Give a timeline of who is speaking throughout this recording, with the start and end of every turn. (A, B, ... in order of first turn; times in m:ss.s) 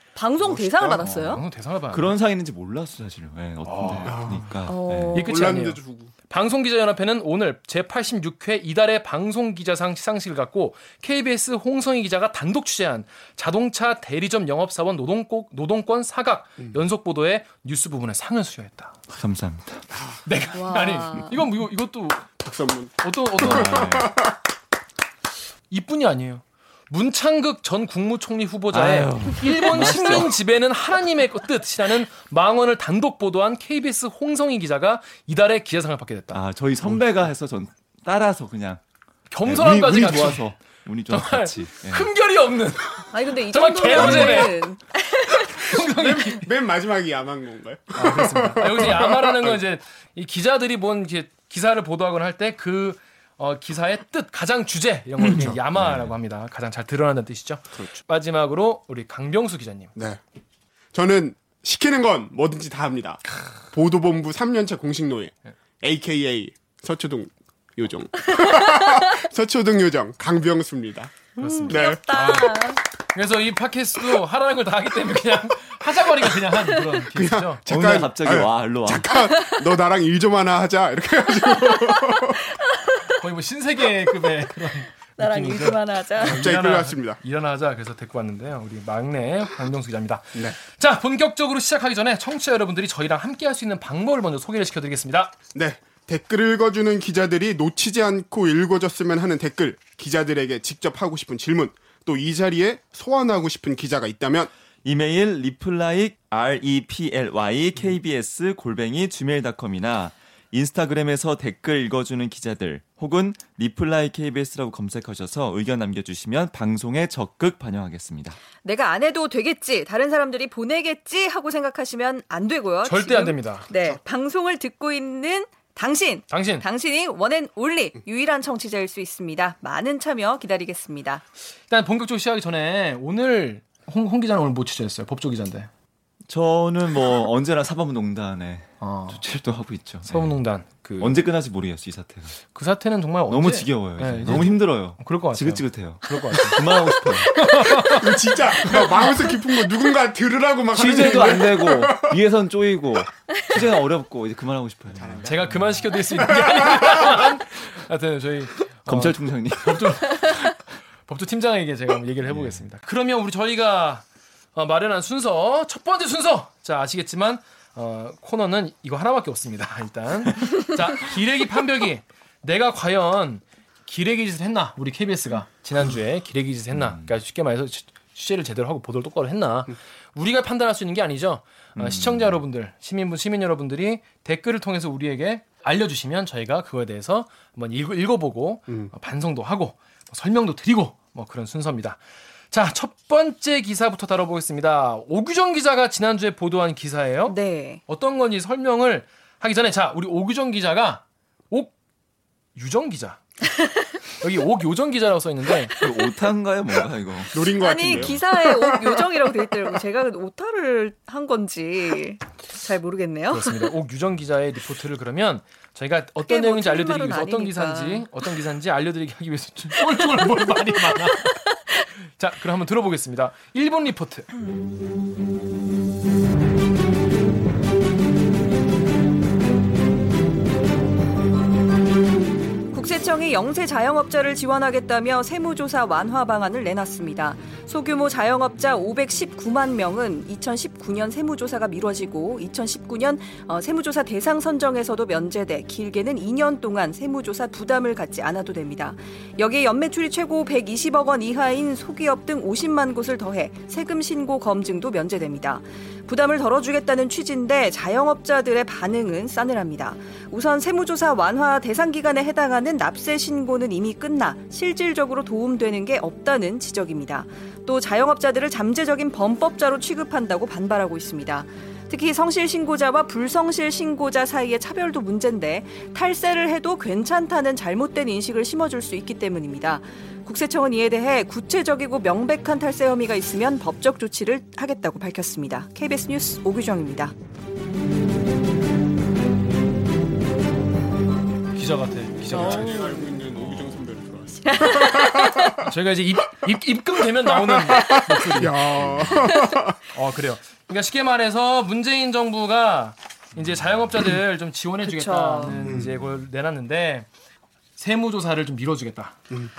0:00.2-0:01.4 A
0:00.4-0:01.1 B
0:01.0-0:05.2 C
0:01.2-0:02.2 D
0:03.6-0:04.4 D
0:04.1-0:04.5 B
0:04.6-0:05.3 A
0:05.1-0:06.1 B
0:05.1-0:19.0 D
0:19.1-0:19.8 C
0:20.2-0:22.3 D
0:20.5-0:21.4 A
0:22.4-0:24.4 B
0:23.0-0:24.0 D
0:23.4-0:24.2 C
0:25.7-0:36.4 D
0:28.7-0:30.4 C
0:36.3-0:38.8 C
0:39.3-0:40.5 D
0:39.4-0:42.1 C
0:41.1-0:44.7 D
0:43.1-0:45.6 A
0:44.0-0:44.5 C
0:45.4-0:46.5 D
0:45.6-0:49.6 B
0:48.0-0:59.9 D
0:55.2-0:55.6 B
0:55.7-0:56.2 C
1:00.9-1:11.2 B
1:11.4-1:12.8 A
1:11.4-1:17.6 D
1:11.7-1:12.0 B
1:17.1-1:22.5 B
1:17.7-1:19.1 C
1:22.7-1:23.0 A
1:23.1-1:35.3 D
1:25.2-1:26.4 A
1:26.2-1:27.2 B
1:35.6-1:44.5 B
1:44.8-1:58.4 C
1:58.6-2:11.2 A
2:02.8-2:03.7 D
2:06.3-2:06.7 D
2:11.7-2:15.7 D
2:16.3-2:20.4 C
2:18.8-2:19.2 D
2:20.1-2:21.2 D
2:21.0-2:22.4 C
2:22.5-2:26.6 D
2:23.3-2:27.3 C
2:27.3-2:29.1 D
2:27.6-2:27.9 A
2:28.0-2:32.2 B
2:30.7-2:35.9 C
2:35.0-2:35.4 B
2:35.2-2:40.6 D
2:36.0-2:37.2 B
2:38.9-2:40.5 C
2:41.1-3:12.0 D
2:42.3-2:42.6 C
2:56.7-2:57.1 C
3:01.8-3:02.4 C
3:12.5-3:17.4 D
3:17.3-3:17.8 A
3:17.9-3:21.7 D
3:22.6-3:23.2 D
3:24.2-3:25.8 D
3:25.8-3:28.2 C
3:27.3-3:29.5 B
3:27.6-3:33.6 A
3:33.3-3:41.4 D
3:36.3-3:38.1 A
3:39.8-3:41.7 A
3:42.2-3:44.3 D
3:52.7-4:47.2 A
4:51.5-4:52.8 D
4:52.3-4:55.7 B
4:52.3-4:53.2 A
4:53.4-4:53.8 C
4:54.4-4:55.6 A
4:55.6-4:59.1 D
4:57.2-4:59.8 B
4:58.8-4:59.3 C
4:59.9-5:07.1 D
5:04.8-5:05.6 A
5:05.6-5:05.9 B
5:05.7-5:05.9 C
5:07.8-5:09.2 D